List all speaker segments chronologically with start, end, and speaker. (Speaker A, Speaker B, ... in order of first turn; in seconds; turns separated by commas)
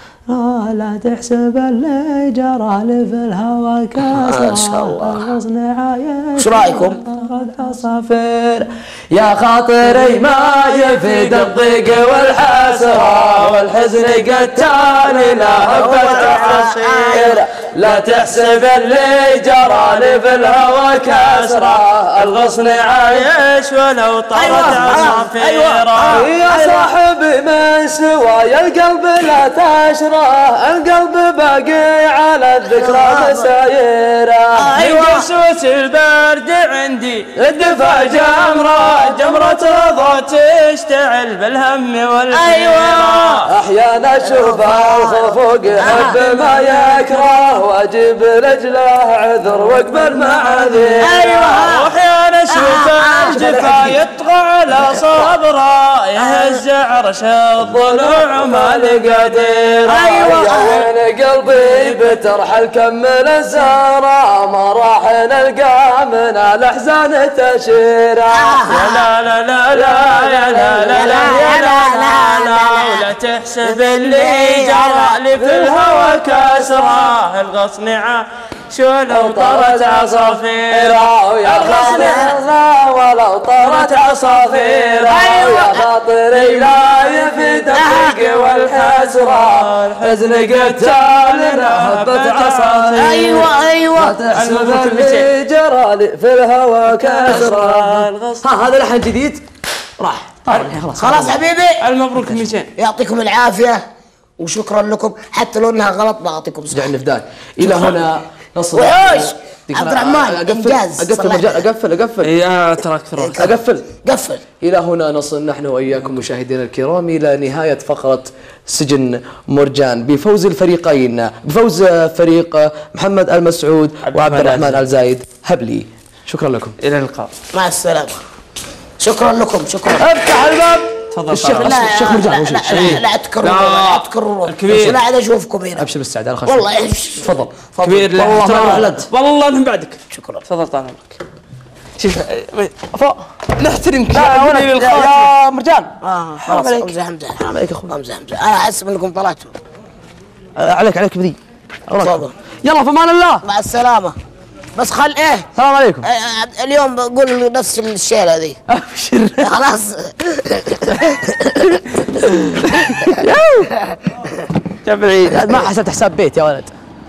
Speaker A: 0.3-23.2, Speaker B: 4.1-5.3, Speaker B: 6.4-7.0, Speaker C: 10.6-26.3, Speaker B: 15.8-17.4, Speaker B: 24.4-26.9, Speaker A: 24.4-25.2, Speaker A: 26.0-34.7, Speaker B: 32.7-33.5, Speaker B: 34.5-35.3, Speaker C: 34.8-43.5, Speaker A: 37.4-40.0, Speaker B: 42.3-43.5, Speaker A: 43.5-51.2, Speaker B: 44.2-46.5, Speaker C: 45.9-47.2, Speaker C: 49.5-60.2, Speaker B: 51.0-52.0, Speaker B: 52.5-53.4, Speaker A: 53.3-54.0, Speaker B: 54.7-55.3, Speaker B: 56.2-56.6, Speaker A: 57.6-68.6, Speaker B: 59.9-60.9, Speaker C: 61.5-62.1, Speaker B: 68.3-69.1, Speaker C: 68.7-82.3, Speaker A: 69.7-71.8, Speaker B: 70.9-73.1, Speaker B: 73.6-75.2, Speaker A: 75.4-76.9, Speaker A: 79.1-99.4, Speaker B: 81.6-82.4, Speaker C: 83.6-85.4, Speaker B: 85.1-85.9, Speaker C: 86.3-93.5, Speaker B: 87.7-88.2, Speaker B: 93.0-94.2, Speaker C: 94.3-95.3, Speaker C: 96.8-98.4, Speaker A: 100.0-101.4, Speaker B: 101.0-101.8, Speaker C: 101.8-102.7, Speaker B: 102.8-103.8, Speaker B: 104.4-106.9, Speaker A: 106.7-112.3, Speaker B: 107.6-108.0, Speaker B: 108.7-111.6, Speaker C: 112.2-113.4, Speaker B: 113.2-114.4, Speaker A: 113.4-113.9, Speaker A: 114.6-126.8, Speaker C: 124.1-124.8, Speaker C: 126.8-127.3, Speaker B: 127.5-128.2, Speaker B: 129.0-130.1, Speaker A: 130.0-133.0, Speaker C: 131.1-131.9, Speaker B: 131.5-135.8, Speaker C: 132.7-135.0, Speaker A: 134.7-135.0, Speaker A: 135.8-136.7, Speaker B: 136.5-139.0, Speaker A: 137.2-137.5, Speaker C: 137.8-141.2, Speaker A: 138.3-139.1, Speaker B: 140.1-140.4, Speaker C: 142.0-142.8, Speaker A: 142.9-145.9, Speaker C: 144.1-145.3, Speaker B: 146.0-149.5, Speaker A: 146.4-147.9, Speaker A: 150.6-153.4, Speaker B: 152.0-152.3, Speaker B: 153.4-154.2, Speaker B: 154.8-155.5, Speaker A: 155.6-156.1, Speaker B: 156.0-158.6, Speaker A: 158.7-159.5, Speaker B: 159.4-161.8, Speaker A: 162.2-163.7, Speaker C: 163.2-163.7, Speaker C: 164.8-165.7, Speaker A: 165.3-166.7